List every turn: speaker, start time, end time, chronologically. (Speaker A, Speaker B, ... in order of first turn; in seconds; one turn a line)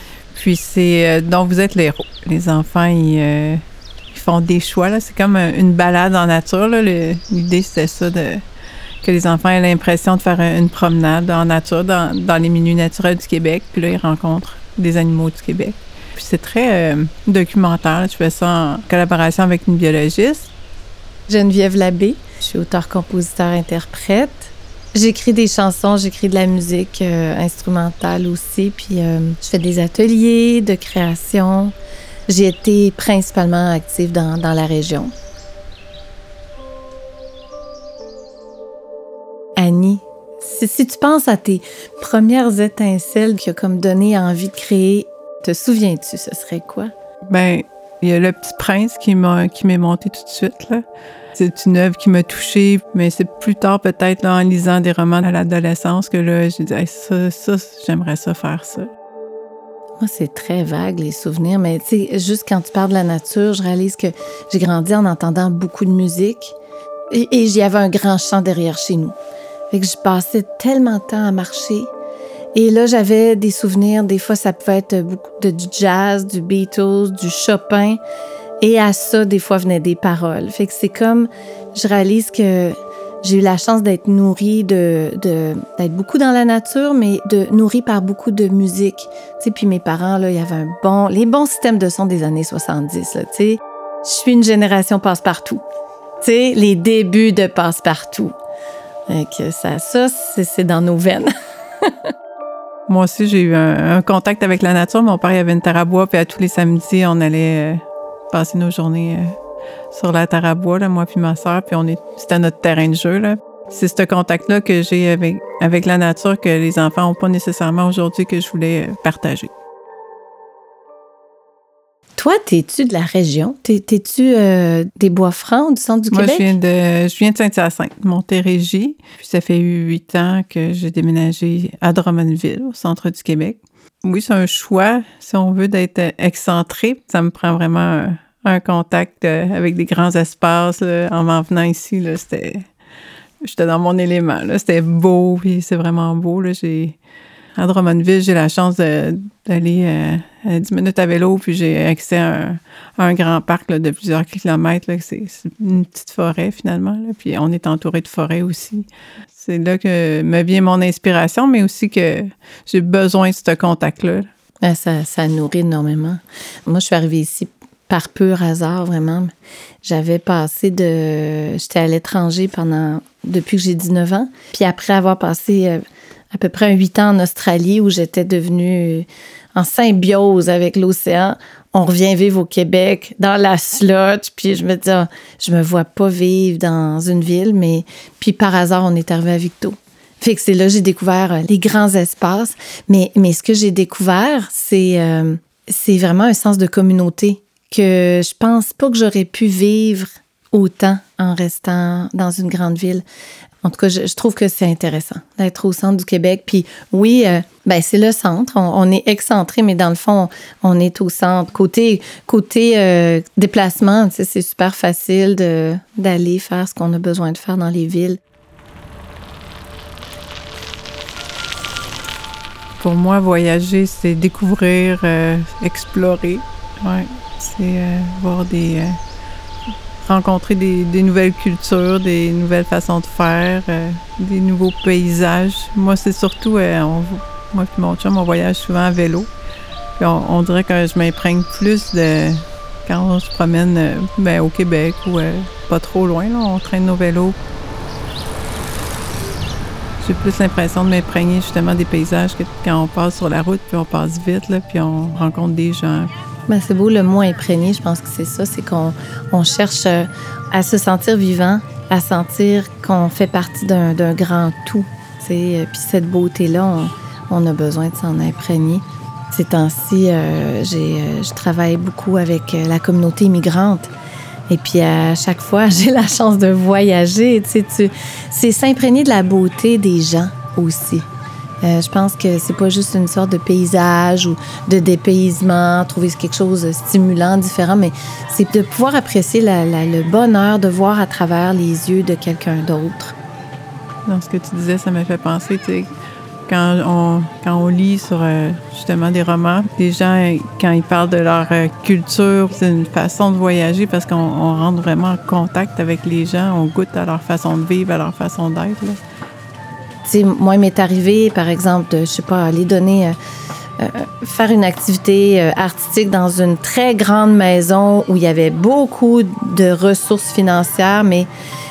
Speaker A: 0.3-8.4
Speaker A: 9.0-20.5
Speaker B: 21.3-31.7
Speaker B: 32.3-35.1
Speaker B: 39.6-46.9
Speaker A: 47.3-50.8
Speaker A: 51.3-58.9
Speaker B: 60.0-66.5
Speaker B: 67.1-69.1
Speaker B: 69.7-71.9
Speaker B: 72.5-78.0
Speaker B: 78.6-95.6
Speaker B: 96.2-98.3
Speaker B: 99.1-102.1
Speaker A: 102.9-109.3
Speaker A: 109.9-119.5
Speaker B: 122.2-126.5
Speaker A: 126.1-142.7
Speaker A: 143.4-147.0
Speaker A: 147.6-164.3
Speaker B: 164.6-203.0
Speaker B: 203.6-218.2
Speaker A: 222.8-229.0
Speaker A: 230.0-239.3
Speaker A: 240.0-247.4
Speaker A: 250.0-256.1
Speaker B: 256.5-273.9
Speaker B: 274.5-281.1
Speaker B: 281.6-293.1
Speaker A: 294.1-295.9
Speaker A: 296.5-309.0
Speaker B: 310.0-313.1
Speaker B: 313.8-321.3